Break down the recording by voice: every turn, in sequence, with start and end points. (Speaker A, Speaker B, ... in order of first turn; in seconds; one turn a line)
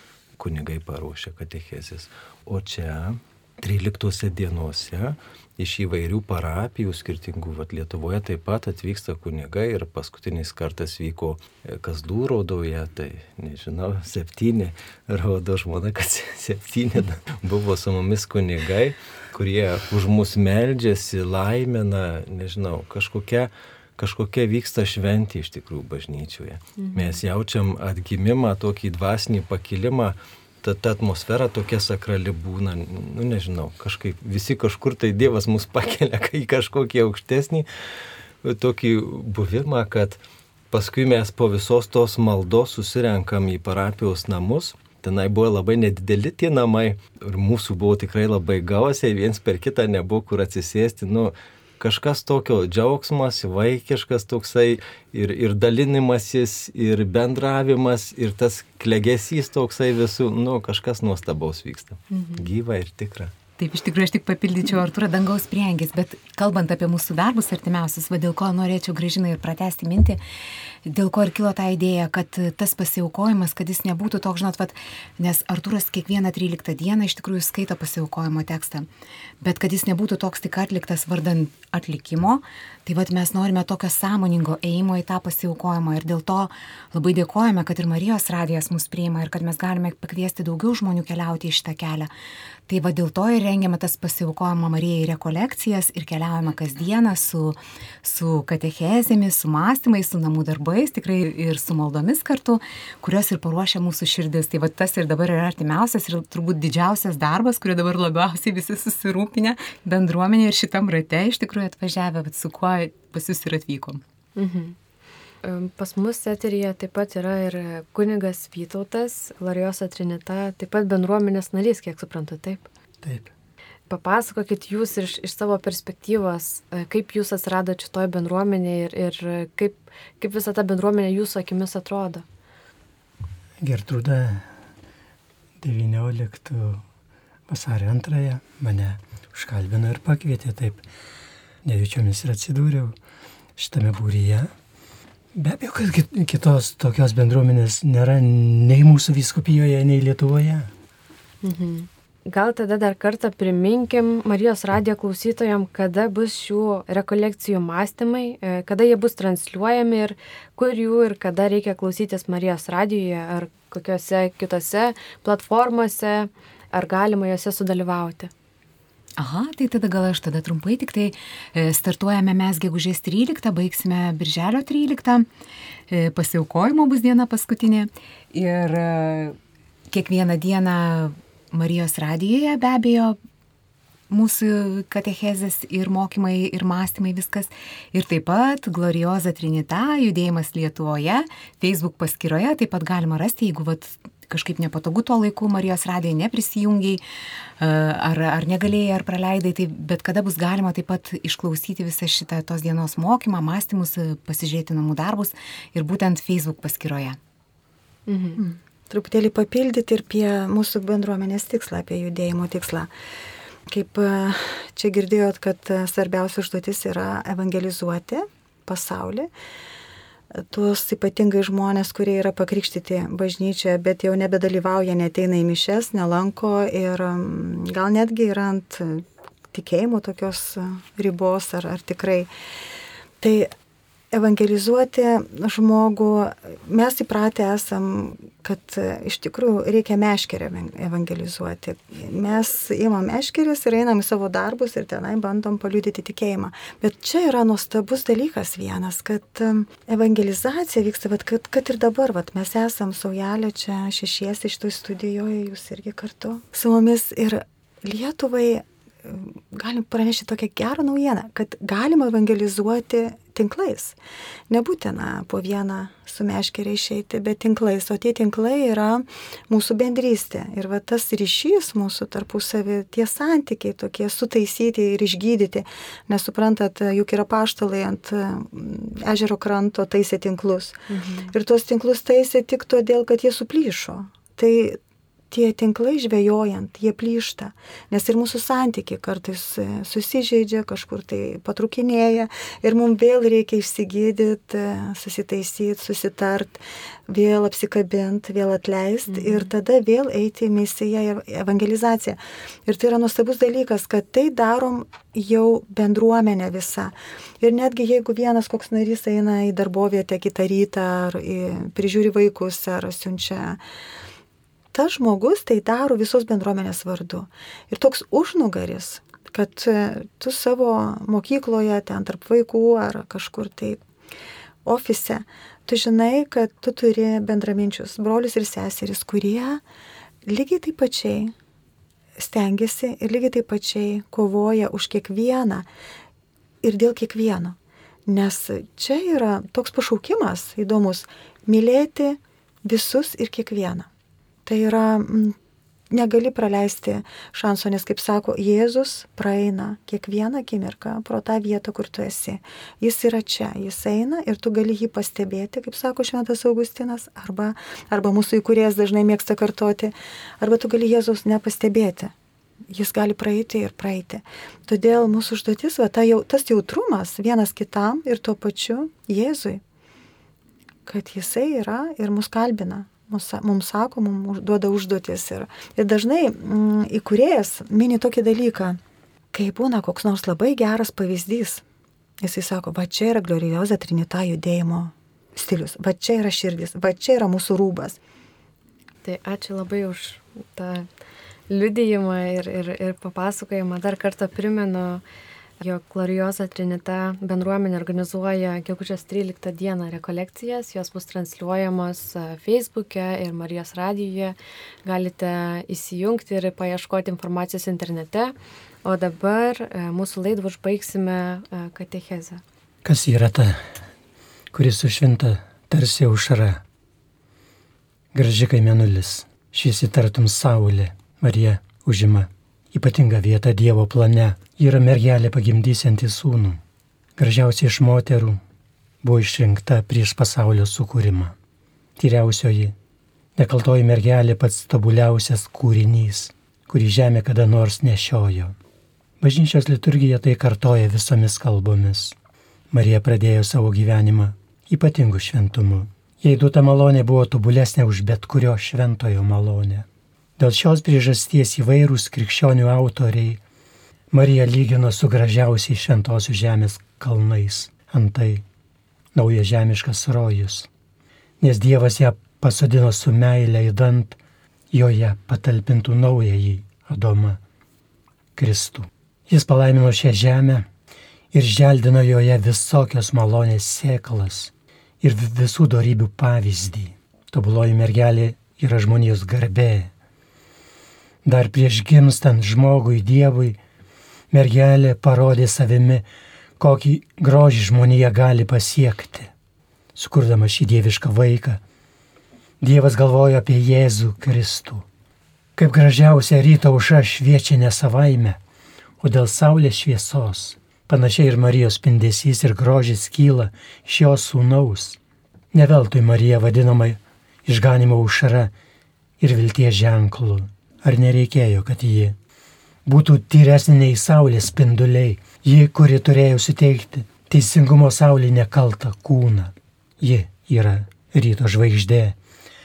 Speaker A: 0.4-37.6
Speaker B: 26.8-27.2
Speaker A: 38.4-40.2
Speaker A: 40.7-63.4
Speaker B: 62.1-62.5
Speaker C: 63.6-70.2
Speaker C: 70.8-78.8
Speaker C: 79.4-92.1
Speaker C: 92.7-114.0
Speaker B: 114.3-114.8
Speaker B: 115.4-122.7
Speaker D: 123.0-123.3
Speaker B: 123.9-132.2
Speaker D: 133.6-134.4
Speaker D: 135.6-136.8
Speaker D: 137.5-140.8
Speaker D: 141.6-142.9
Speaker D: 143.6-144.5
Speaker D: 145.3-150.7
Speaker B: 151.4-168.3
Speaker C: 169.2-175.2
Speaker C: 175.9-179.3
Speaker C: 179.9-183.2
Speaker C: 184.1-197.0
Speaker C: 197.6-207.2
Speaker B: 208.1-208.4
Speaker E: 208.3-212.9
Speaker E: 213.7-219.3
Speaker E: 220.3-232.3
Speaker E: 233.2-233.5
Speaker E: 234.1-264.0
Speaker E: 264.5-284.8
Speaker B: 280.9-281.3
Speaker E: 285.3-313.6
Speaker B: 299.1-299.5
Speaker E: 314.7-323.8
Speaker E: 324.6-329.6
Speaker E: 330.2-331.3
Speaker E: 332.2-335.7
Speaker E: 336.6-337.6
Speaker E: 338.1-343.9
Speaker E: 344.4-345.4
Speaker E: 345.9-362.1
Speaker E: 362.7-369.6
Speaker E: 370.9-378.8
Speaker E: 379.3-381.6
Speaker E: 382.2-388.0
Speaker B: 389.0-390.9
Speaker B: 391.5-395.0
Speaker B: 395.6-412.4
Speaker D: 412.8-413.6
Speaker D: 414.5-416.6
Speaker D: 418.1-426.6
Speaker D: 427.2-428.4
Speaker D: 429.0-431.3
Speaker D: 432.0-432.7
Speaker D: 433.4-438.5
Speaker D: 439.2-442.1
Speaker D: 442.7-449.9
Speaker D: 450.4-453.4
Speaker D: 454.1-458.4
Speaker D: 459.1-460.7
Speaker D: 461.4-464.2
Speaker D: 464.7-467.4
Speaker D: 468.4-470.7
Speaker D: 471.3-474.5
Speaker D: 475.0-479.9
Speaker D: 481.2-483.6
Speaker D: 484.3-486.0
Speaker D: 486.6-489.3
Speaker D: 489.9-491.6
Speaker D: 492.6-494.8
Speaker D: 495.6-498.4
Speaker D: 499.0-505.0
Speaker D: 505.5-508.5
Speaker D: 509.2-512.1
Speaker D: 512.9-522.2